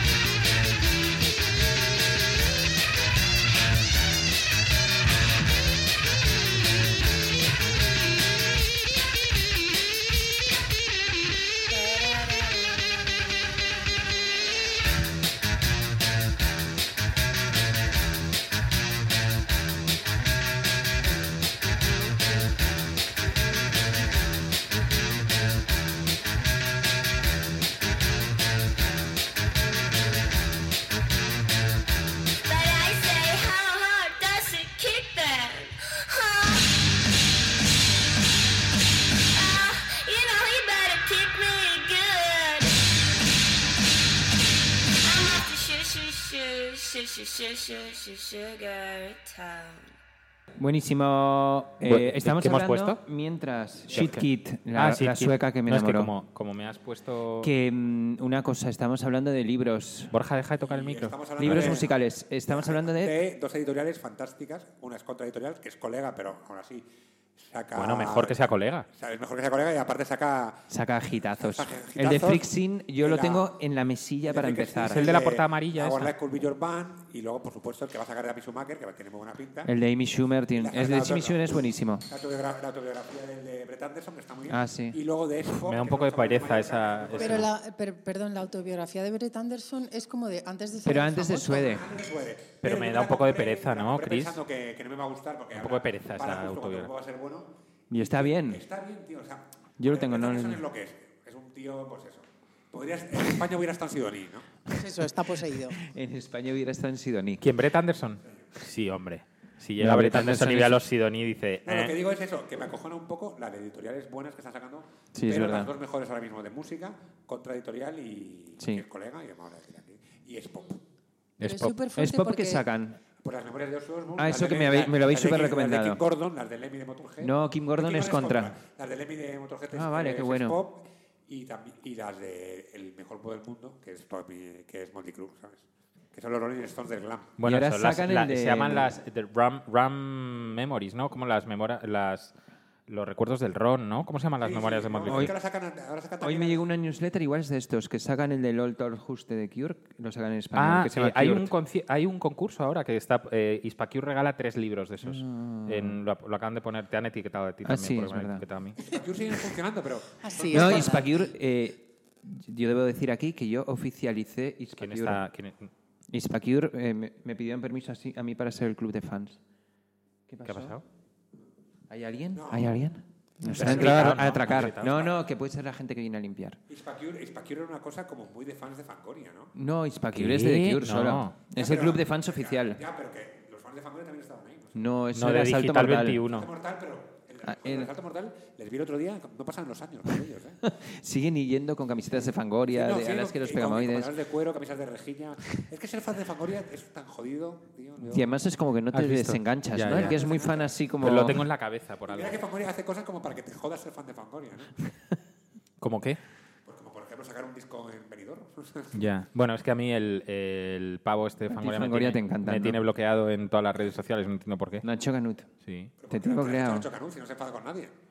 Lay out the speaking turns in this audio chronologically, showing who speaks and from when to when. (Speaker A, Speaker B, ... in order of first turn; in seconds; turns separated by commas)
Speaker A: 11.7-12.7, Speaker A: 32.5-36.7, Speaker A: 39.3-42.8, Speaker A: 45.0-49.9, Speaker B: 50.6-56.1, Speaker C: 51.8-53.0, Speaker C: 53.9-57.5, Speaker B: 57.4-60.1, Speaker C: 60.1-61.9, Speaker D: 60.6-68.4, Speaker B: 61.4-63.2, Speaker C: 67.8-68.9, Speaker D: 68.9-70.7, Speaker B: 70.7-75.1, Speaker D: 71.4-73.5, Speaker D: 74.2-79.7, Speaker C: 74.9-76.1, Speaker B: 79.6-82.1, Speaker D: 80.5-87.5, Speaker B: 84.5-85.0, Speaker C: 85.6-87.5, Speaker E: 87.2-91.8, Speaker B: 90.8-91.9, Speaker D: 91.6-104.5, Speaker C: 92.6-94.4, Speaker C: 95.5-96.9, Speaker B: 97.9-98.6, Speaker B: 99.8-100.6, Speaker E: 104.7-105.8, Speaker B: 105.8-107.5, Speaker C: 107.4-112.0, Speaker B: 109.8-110.8, Speaker D: 111.6-120.8, Speaker B: 115.1-115.7, Speaker C: 121.4-121.7, Speaker E: 121.4-122.6, Speaker B: 122.0-123.0, Speaker D: 123.2-137.4, Speaker B: 124.2-126.0, Speaker B: 127.2-128.6, Speaker B: 129.7-130.6, Speaker C: 137.4-142.3, Speaker B: 137.4-138.9, Speaker C: 142.9-145.3, Speaker D: 144.4-146.6, Speaker B: 145.1-145.3, Speaker B: 146.2-151.5, Speaker C: 150.6-158.8, Speaker B: 155.0-156.0, Speaker B: 157.6-158.4, Speaker D: 158.8-161.1, Speaker E: 160.2-161.3, Speaker B: 160.5-165.2, Speaker C: 164.8-165.7, Speaker B: 166.1-169.4, Speaker B: 170.3-170.8, Speaker C: 170.4-170.8, Speaker B: 171.9-176.6, Speaker D: 172.3-172.9, Speaker C: 173.4-174.9, Speaker D: 173.6-175.2, Speaker D: 176.7-179.5, Speaker B: 179.6-182.8, Speaker C: 180.1-181.3, Speaker D: 181.6-184.9, Speaker B: 184.8-186.2, Speaker C: 185.1-186.5, Speaker D: 186.2-190.6, Speaker B: 187.4-187.9, Speaker B: 190.6-194.1, Speaker D: 192.7-198.4, Speaker B: 198.0-201.4, Speaker C: 198.9-200.2, Speaker D: 199.9-200.8, Speaker C: 201.0-202.4, Speaker D: 202.1-204.7, Speaker C: 205.8-206.2, Speaker D: 206.6-209.1, Speaker C: 208.9-214.8, Speaker B: 211.5-212.8, Speaker B: 214.8-215.5, Speaker C: 215.7-215.9, Speaker D: 216.0-217.9, Speaker B: 216.1-216.9